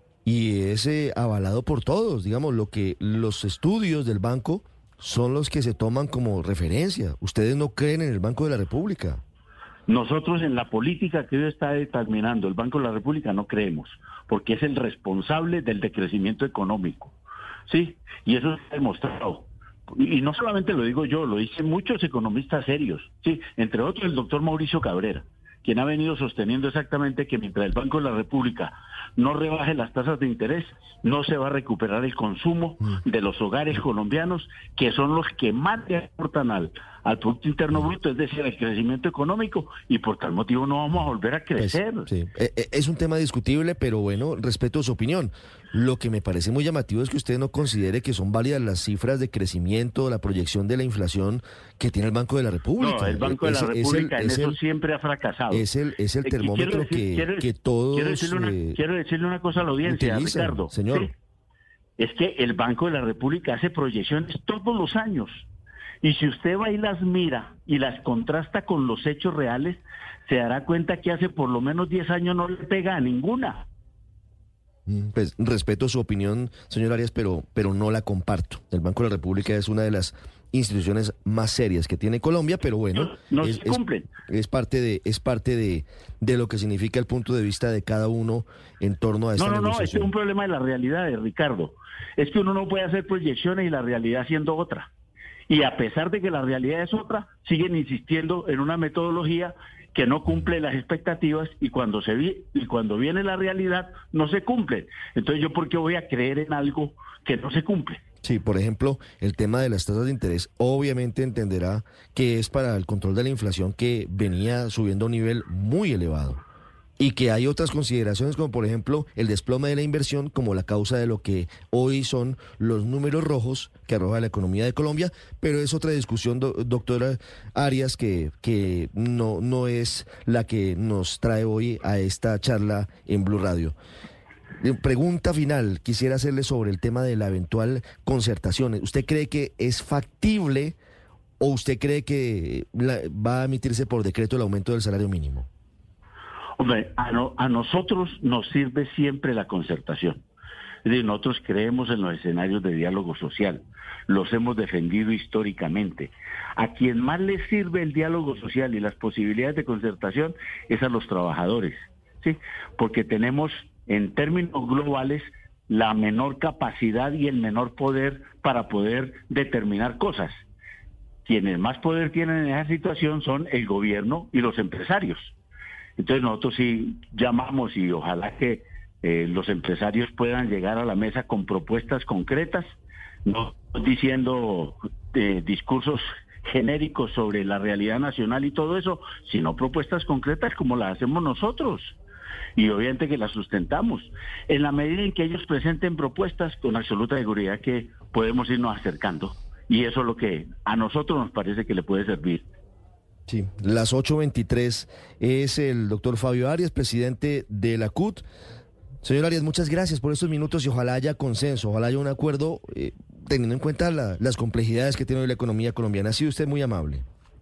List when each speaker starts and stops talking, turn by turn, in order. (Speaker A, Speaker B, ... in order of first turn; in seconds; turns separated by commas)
Speaker A: 0.2-9.2, Speaker B: 9.9-17.1, Speaker B: 17.7-42.1, Speaker A: 41.6-54.6, Speaker B: 52.8-55.7, Speaker A: 55.5-58.8, Speaker B: 56.2-61.1, Speaker A: 59.8-61.1, Speaker B: 62.0-65.5, Speaker B: 66.0-73.7, Speaker A: 74.9-90.1, Speaker B: 82.9-84.1, Speaker B: 89.3-94.9, Speaker B: 95.5-108.0, Speaker A: 108.2-116.4, Speaker A: 117.0-133.7, Speaker A: 134.6-140.8, Speaker A: 141.4-145.5, Speaker B: 146.6-150.2, Speaker B: 150.8-170.4, Speaker B: 171.2-175.3, Speaker B: 176.0-182.7, Speaker B: 183.2-192.0, Speaker B: 192.6-202.4, Speaker A: 203.3-208.2, Speaker A: 209.0-217.0